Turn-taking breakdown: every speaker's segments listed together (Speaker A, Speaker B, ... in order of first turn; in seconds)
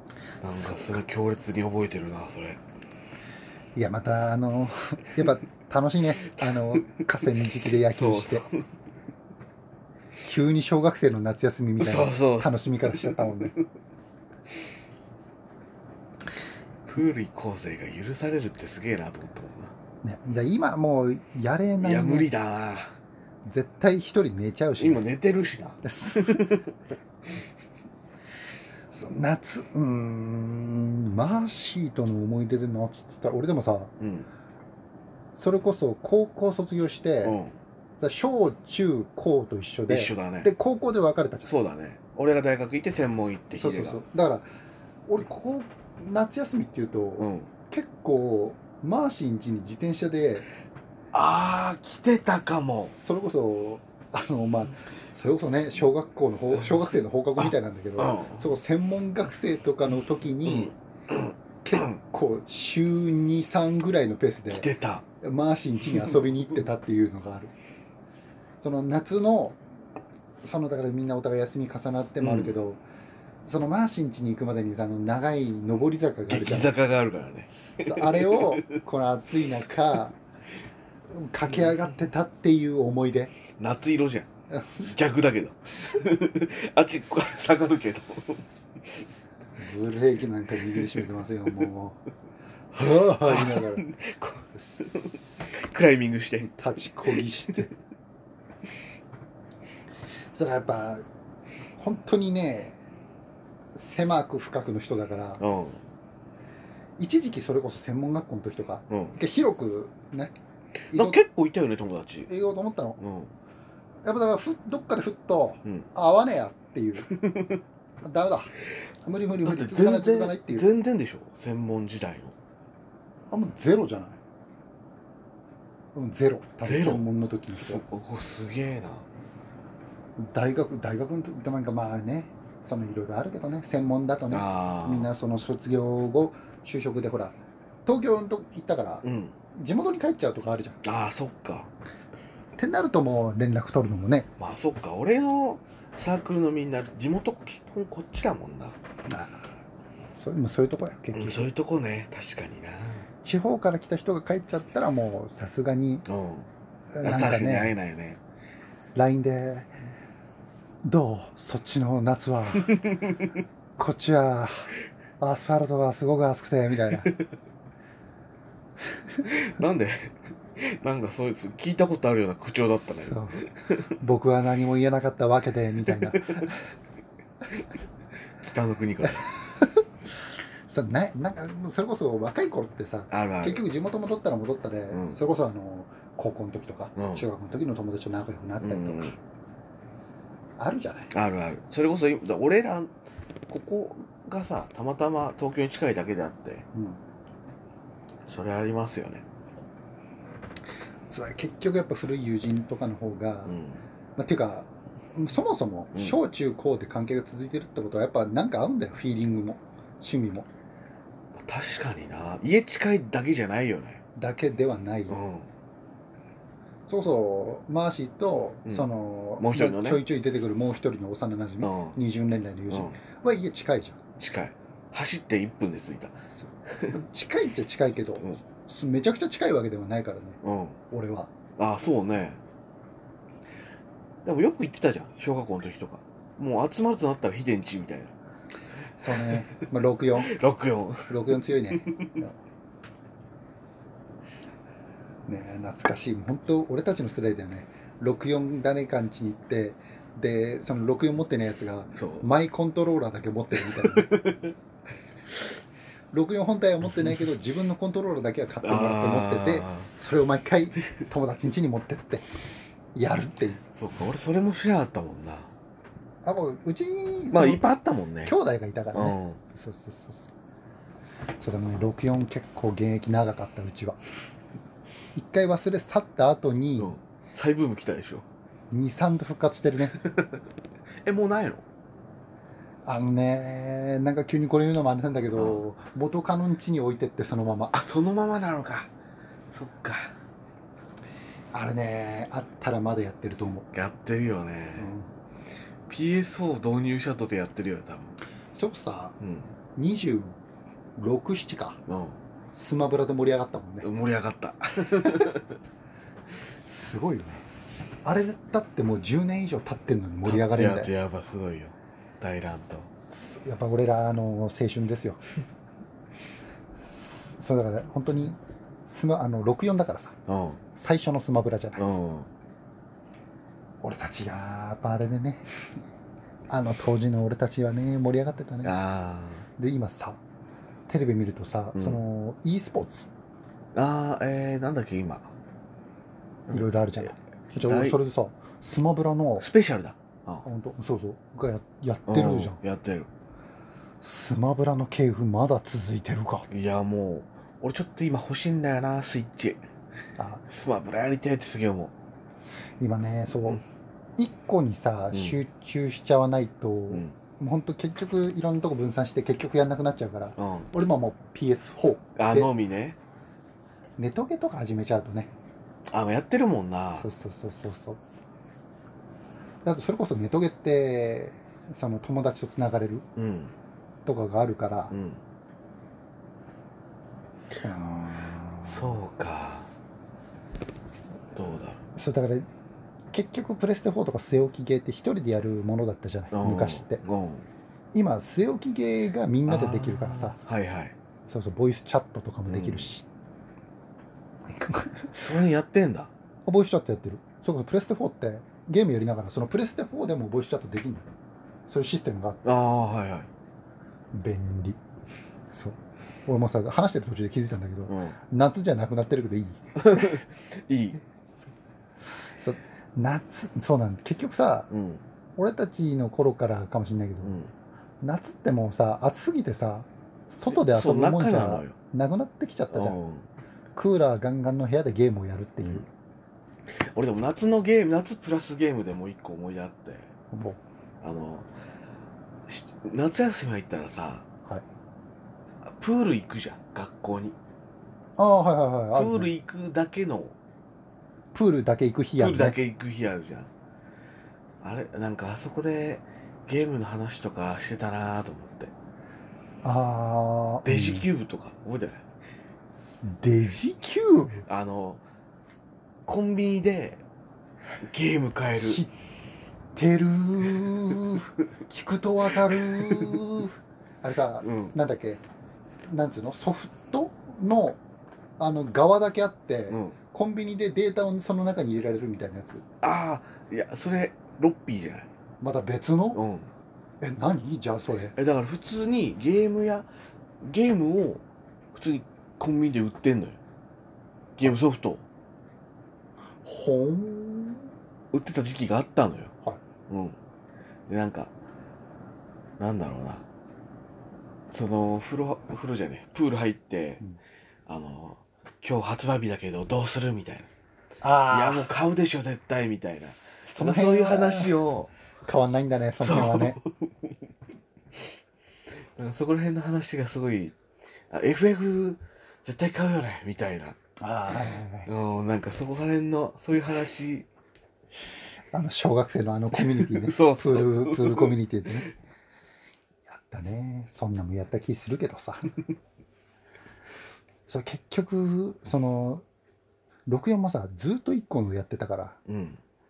Speaker A: 0.4-2.6, 6.3-6.9, 7.7-8.6, 11.8-13.7, 16.9-19.7, 21.8-22.9, 24.8-26.7, 34.0-34.3, 37.2-37.5, 39.9-40.5, 41.4-44.0, 47.2-47.5, 51.1-52.9, 57.4-58.4, 60.5-62.0, 64.5-65.0, 72.2-72.5, 76.3-78.8, 83.6-84.3, 84.8-88.4, 90.7-91.0, 93.2-96.5, 97.1-97.6, 105.4-105.8, 108.9-109.2, 110.9-112.3, 113.0-113.3, 117.0-117.6, 119.4-122.3, 126.6-129.1, 134.3-135.1, 139.0-139.3, 140.8-141.7, 144.4-148.8, 151.1-153.1, 156.1-156.5, 157.0-158.2, 162.7-163.3, 169.2-173.9, 175.9-176.4, 178.4-179.3, 183.1-183.6, 184.9-185.2, 186.9-187.2, 188.6-189.2, 191.1-192.9, 193.5-196.6, 198.2-199.2, 203.4-203.8, 205.9-206.2, 211.4-214.0, 215.1-215.5, 219.4-220.0, 221.6-222.0, 222.7-223.0, 224.2-226.2, 230.4-230.8, 231.6-232.4, 234.2-238.1, 239.1-239.6, 240.2-241.1, 241.8-242.1, 251.9-252.3, 253.5-254.5, 256.8-257.2, 258.6-259.9, 263.7-265.5, 267.3-268.3, 268.9-269.4, 276.8-278.2, 279.9-280.4, 281.0-281.6, 285.3-285.6, 287.7-288.9, 289.5-290.1, 293.7-294.9, 295.9-298.2, 299.2-299.5, 301.9-302.2, 303.8-305.5, 310.2-312.9, 320.3-320.6, 321.8-322.3, 328.6-329.4, 331.7-332.0, 333.7-335.3, 336.5-338.0, 339.4-340.4, 342.1-343.1, 346.5-349.6, 350.5-351.9, 355.1-355.4, 356.9-357.2, 360.4-360.7, 362.1-363.0, 365.9-367.1, 373.1-373.5, 374.9-375.2, 378.6-379.7, 381.3-381.8, 386.3-387.5, 389.5-390.9, 392.5-392.9, 395.2-396.1, 402.4-403.3, 407.9-408.1, 409.8-411.0, 414.7-415.0, 417.2-417.5, 420.5-421.7, 422.7-423.2, 426.8-430.1, 431.0-431.5, 432.5-434.2, 435.6-437.4, 438.9-440.4, 442.2-443.5, 444.6-448.7, 450.6-452.0, 454.4-455.0, 456.1-457.0, 457.8-458.8, 462.5-463.2, 464.4-464.7, 469.7-469.9, 472.8-475.1, 476.1-476.5, 478.1-479.9, 480.4-481.2, 481.7-483.4, 484.4-485.0, 488.1-489.3, 489.9-490.2, 490.9-491.3, 492.6-493.2, 494.5-497.0, 497.7-500.5, 501.3-504.9, 506.0-506.9, 509.0-510.5, 511.1-513.8, 514.9-517.3, 519.5-521.3, 532.3-532.6
Speaker B: 0.5-1.0, 3.8-8.5, 10.2-13.5, 20.0-22.3, 23.4-25.1, 25.8-26.6, 28.9-33.9, 35.4-37.4, 38.0-41.5, 43.5-44.4, 45.1-50.5, 53.0-60.7, 61.6-64.7, 65.2-67.5, 68.6-69.6, 70.4-72.8, 73.4-76.7, 77.8-80.1, 81.1-83.3, 84.5-84.9, 89.6-92.0, 92.7-93.8, 96.4-97.7, 100.3-101.0, 101.8-102.8, 103.7-105.4, 107.0-110.3, 110.9-111.2, 112.2-113.0, 114.0-117.1, 118.0-118.5, 119.0-120.7, 123.3-124.2, 125.9-127.8, 130.2-140.8, 142.6-144.3, 149.1-149.4, 150.1-151.5, 153.2-156.1, 156.9-157.8, 158.9-159.7, 160.8-162.8, 163.8-164.7, 165.2-167.1, 172.9-173.4, 174.0-176.6, 179.5-179.8, 180.7-189.2, 190.6-191.1, 196.7-197.0, 201.1-203.5, 204.2-210.5, 214.2-215.2, 216.9-224.0, 226.2-230.4, 230.9-231.3, 239.0-240.3, 241.1-242.3, 245.2-254.1, 256.1-262.2, 262.9-263.6, 266.2-267.6, 268.2-270.3, 271.4-274.0, 275.1-276.9, 278.7-280.0, 282.9-287.7, 291.5-293.7, 294.8-295.1, 298.5-299.2, 299.8-300.3, 301.0-301.8, 302.5-303.9, 306.7-307.5, 308.0-310.9, 313.1-315.2, 316.8-320.1, 320.8-321.8, 323.8-325.4, 326.5-328.8, 329.6-330.2, 330.9-333.1, 336.5-339.5, 340.4-342.6, 344.0-346.5, 350.2-350.4, 352.8-353.6, 354.2-362.5, 364.0-365.3, 366.9-368.0, 369.6-373.1, 374.1-374.9, 377.5-379.0, 381.9-382.5, 383.1-387.0, 387.9-390.4, 391.3-393.1, 394.5-395.3, 396.4-401.1, 401.7-402.4, 404.1-404.8, 405.5-410.1, 412.2-414.7, 415.4-417.4, 418.0-423.0, 423.8-425.9, 430.3-430.6, 438.2-439.3, 441.3-442.6, 449.6-451.1, 453.0-454.4, 458.5-458.9, 459.7-465.2, 465.9-467.8, 468.4-472.6, 475.4-476.2, 477.0-478.1, 486.4-487.7, 501.0-501.7, 503.5-504.6, 505.2-506.6, 514.0-514.9, 518.5-521.9, 523.1-525.5, 527.5-529.2, 530.1-532.2